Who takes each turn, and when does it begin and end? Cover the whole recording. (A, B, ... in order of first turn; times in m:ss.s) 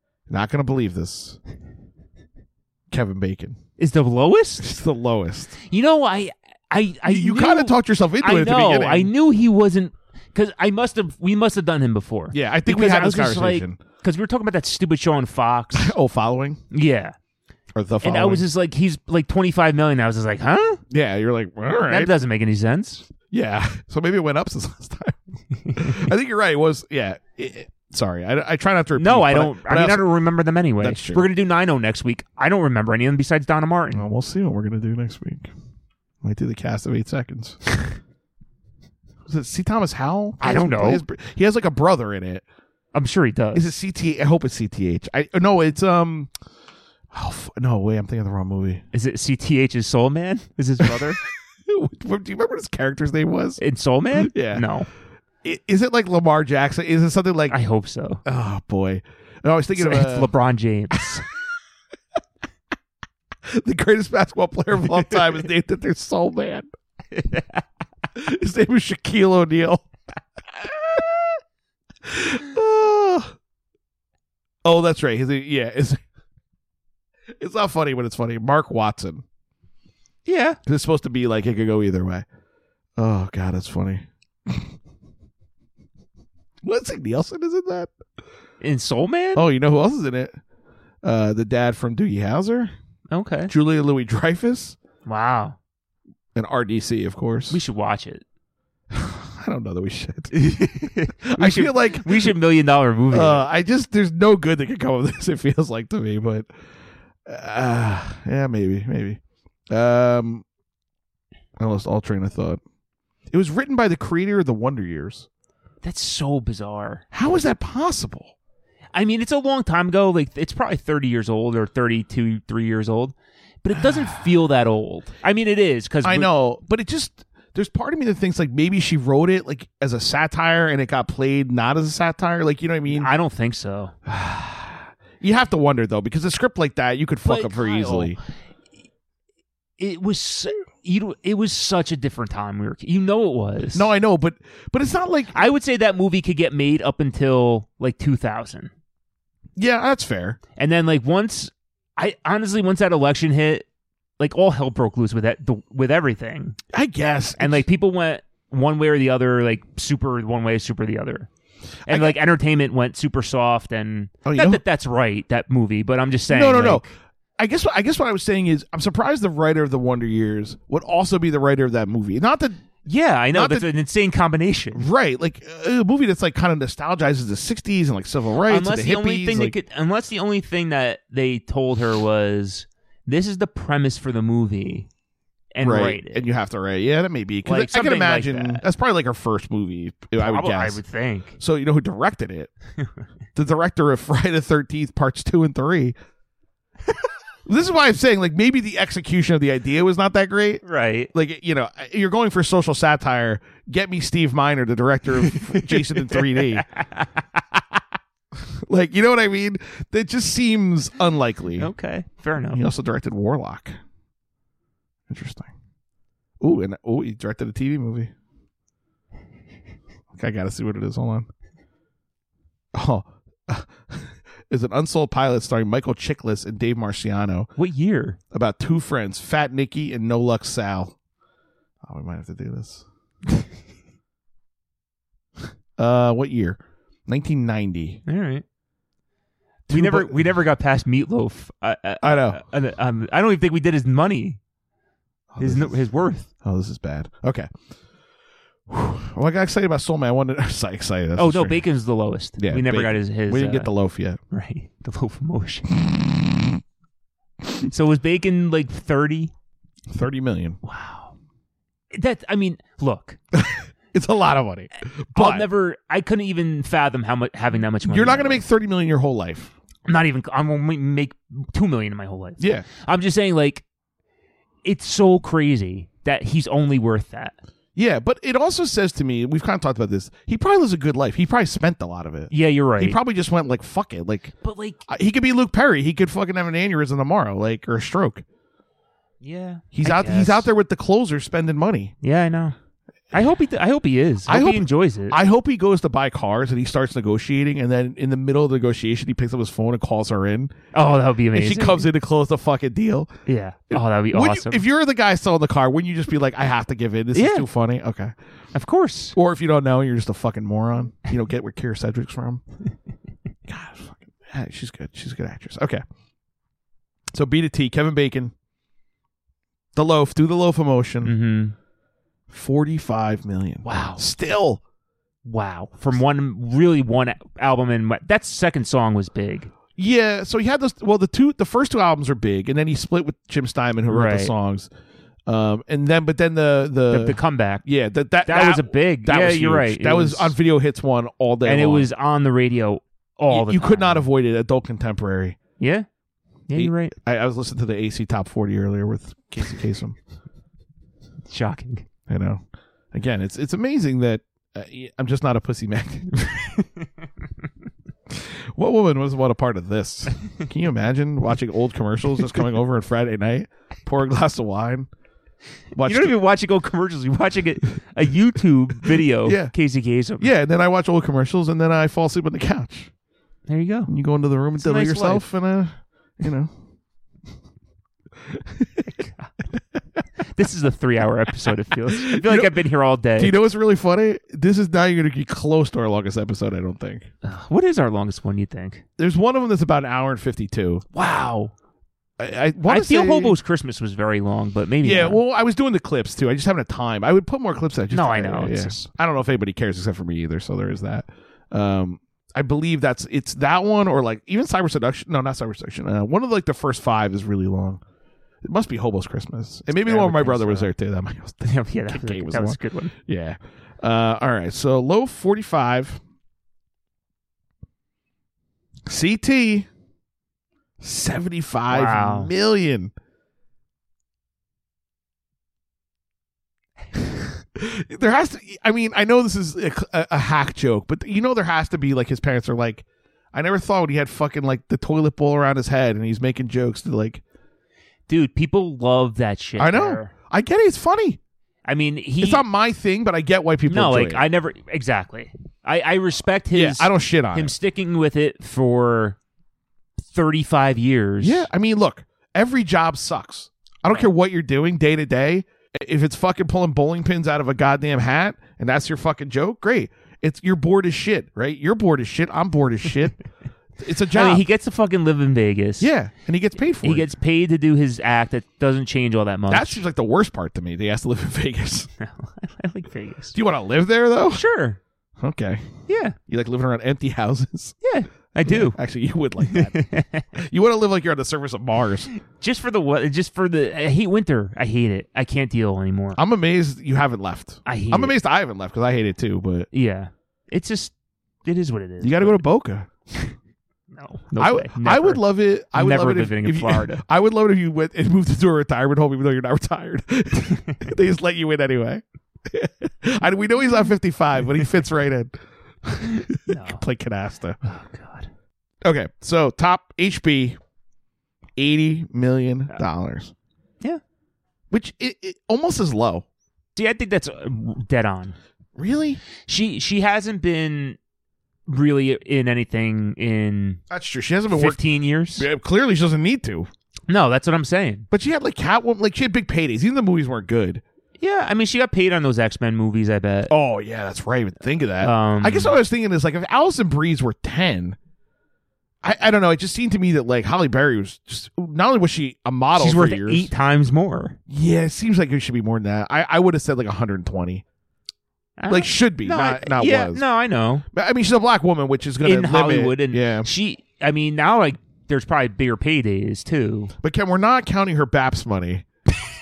0:00.3-0:01.4 A
0:02.9-0:03.6 A
0:03.8-0:04.6 B
0:04.6-0:05.6 A
0:05.7-0:15.9 B
0:07.1-0:09.1 A
0:12.3-0:13.8 A
0:15.7-0:16.6 A
0:16.7-0:17.2 B
0:17.8-0:18.4 A
0:18.0-0:20.8 B
0:20.9-0:22.1 A
0:21.9-0:23.1 B
0:23.3-0:25.2 A
0:25.6-0:26.1 B
0:25.7-0:30.2 A
0:29.0-0:34.0 B
0:30.8-0:31.3 A
0:33.9-0:35.5 A
0:36.2-0:37.6 A
0:39.3-0:42.4 A
0:40.4-0:41.0 B
0:42.9-0:43.7 B
0:43.5-0:46.3 A
0:47.1-0:48.8 A
0:48.9-0:51.2 B
0:51.6-0:53.6 A
0:53.6-0:54.9 B
0:54.1-0:54.7 A
0:55.4-0:57.6 A
0:57.5-0:58.2 B
0:58.2-1:00.3 A
0:59.8-1:01.3 B
1:03.5-1:06.7 A
1:07.1-1:07.6 B
1:08.2-1:09.9 A
1:10.5-1:11.4 A
1:12.0-1:13.4 A
1:14.6-1:16.0 A
1:17.3-1:19.2 A
1:20.3-1:20.6 B
1:20.7-1:22.3 A
1:23.0-1:24.7 A
1:26.6-1:27.9 A
1:28.6-1:29.4 B
1:29.3-1:30.4 A
1:31.0-1:32.7 A
1:33.1-1:33.5 B
1:33.5-1:34.8 A
1:35.1-1:35.6 B
1:36.4-1:37.6 A
1:37.5-1:38.2 B
1:38.9-1:42.3 A
1:40.3-1:43.4 B
1:43.1-1:46.5 A
1:47.3-1:50.4 A
1:51.6-1:52.6 A
1:53.3-1:55.3 A
1:55.8-1:57.0 B
1:57.1-1:58.3 A
1:58.9-2:06.3 B
2:03.7-2:04.2 A
2:06.0-2:13.1 A
2:12.9-2:13.9 B
2:14.1-2:18.2 A
2:17.2-2:18.2 B
2:19.8-2:23.9 B
2:23.7-2:25.4 A
2:25.3-2:28.7 B
2:29.6-2:30.4 A
2:30.6-2:33.7 B
2:34.2-2:36.6 B
2:36.7-2:37.7 A
2:37.4-2:41.3 B
2:41.8-2:46.9 B
2:41.9-2:42.2 A
2:44.2-2:44.6 A
2:46.3-2:52.6 A
2:52.9-2:54.9 B
2:53.3-2:53.7 A
2:54.7-2:59.5 A
2:58.5-3:04.9 B
3:05.5-3:06.3 B
3:05.6-3:10.8 A
3:07.4-3:08.6 B
3:10.2-3:11.4 B
3:11.4-3:12.5 A
3:13.4-3:16.0 A
3:17.5-3:26.7 A
3:20.6-3:21.1 B
3:25.3-3:27.1 B
3:28.3-3:31.7 A
3:31.6-3:32.7 B
3:32.5-3:33.8 A
3:35.1-3:35.5 A
3:36.4-3:38.1 A
3:40.1-3:41.3 A
3:42.7-3:47.5 A
3:47.6-3:48.2 B
3:48.3-3:51.0 A
3:51.8-3:52.9 A
3:55.8-3:58.0 A
3:58.1-3:58.4 B
3:59.7-4:00.3 A
3:59.7-4:04.4 B
4:02.0-4:02.4 A
4:05.3-4:05.8 A
4:05.4-4:06.3 B
4:06.4-4:07.5 A
4:08.7-4:11.7 A
4:11.2-4:13.7 B
4:12.4-4:14.2 A
4:14.3-4:15.7 B
4:16.0-4:16.5 A
4:17.7-4:19.3 B
4:19.9-4:20.6 A
4:20.6-4:21.1 B
4:21.9-4:23.2 B
4:23.3-4:25.5 A
4:25.2-4:28.4 B
4:27.8-4:29.5 A
4:29.9-4:33.6 B
4:32.4-4:32.7 A
4:34.6-4:37.4 B
4:37.8-4:44.3 A
4:42.3-4:43.0 B
4:44.4-4:44.8 B
4:44.9-4:48.2 A
4:49.2-4:50.5 B
4:49.7-4:51.9 A
4:52.0-4:52.6 B
4:53.1-4:55.2 B
4:54.3-5:00.6 A
5:00.7-5:01.9 B
5:01.3-5:03.1 A
5:03.3-5:04.6 B
5:03.7-5:08.1 A
5:07.1-5:07.5 B
5:08.5-5:09.2 B
5:09.1-5:12.4 A
5:13.5-5:15.8 A
5:17.1-5:18.3 A
5:19.8-5:21.2 A
5:21.0-5:21.6 B
5:22.3-5:24.6 A
5:23.6-5:24.0 B
5:25.2-5:29.5 B
5:29.8-5:34.7 A
5:33.9-5:34.3 B
5:35.3-5:41.9 A
5:36.9-5:37.6 B
5:38.2-5:40.4 B
5:41.4-5:44.1 B
5:43.3-5:45.4 A
5:45.6-5:45.9 B
5:46.5-5:47.0 B
5:46.6-5:50.0 A
5:51.3-5:51.9 B
5:52.1-5:56.2 A
5:56.2-5:56.6 B
5:58.1-6:04.9 A
6:05.7-6:06.2 A
6:05.8-6:10.3 B
6:09.2-6:09.5 A
6:10.2-6:12.9 A
6:13.5-6:13.9 B
6:13.9-6:16.5 A
6:14.6-6:15.3 B
6:18.3-6:18.9 A
6:18.9-6:19.3 B
6:20.2-6:23.4 B
6:21.9-6:22.6 A
6:23.2-6:27.1 A
6:27.2-6:28.8 B
6:29.0-6:30.8 A
6:30.9-6:31.5 B
6:32.2-6:33.4 A
6:32.7-6:35.2 B
6:34.8-6:47.8 A
6:37.9-6:38.9 B
6:48.4-6:56.0 A
6:49.7-6:50.7 B
6:51.4-6:52.9 B
6:58.8-6:59.7 A
7:00.8-7:02.9 A
7:01.7-7:02.3 B
7:07.2-7:17.2 A
7:18.1-7:20.1 B
7:19.6-7:21.2 A
7:21.6-7:22.4 B
7:22.2-7:24.2 A
7:23.7-7:29.2 B
7:26.5-7:27.5 A
7:30.0-7:31.5 B
7:31.2-7:43.2 A
7:43.8-7:44.4 A
7:44.1-7:45.9 B
7:45.8-7:47.1 A
7:46.8-7:49.8 B
7:49.5-7:51.9 A
7:52.0-7:53.4 B
7:53.3-7:54.4 A
7:54.3-7:54.8 B
7:55.2-7:57.8 A
7:55.9-7:56.2 B
7:57.8-7:58.8 B
7:58.4-8:02.1 A
7:59.4-8:00.3 B
8:02.2-8:06.2 B
8:06.2-8:09.7 A
8:07.7-8:08.2 B
8:09.7-8:10.9 B
8:11.4-8:12.4 B
8:12.0-8:12.9 A
8:13.9-8:17.0 B
8:14.4-8:27.6 A
8:26.3-8:26.8 B
8:27.6-8:28.3 B
8:28.8-8:30.6 A
8:31.6-8:33.3 A
8:34.7-8:36.2 A
8:36.8-8:38.4 B
8:38.8-8:39.2 A
8:39.5-8:41.0 B
8:41.7-8:43.8 B
8:43.9-8:44.8 A
8:44.5-8:45.5 B
8:45.4-8:46.7 A
8:47.1-8:48.1 B
8:48.1-8:50.8 A
8:51.2-8:53.5 B
8:53.5-8:58.0 A
8:55.0-8:55.8 B
8:59.0-9:03.5 A
9:02.8-9:04.4 B
9:04.5-9:07.6 A
9:08.6-9:10.9 B
9:08.7-9:10.2 A
9:10.9-9:13.5 A
9:12.2-9:16.9 B
9:17.0-9:18.8 A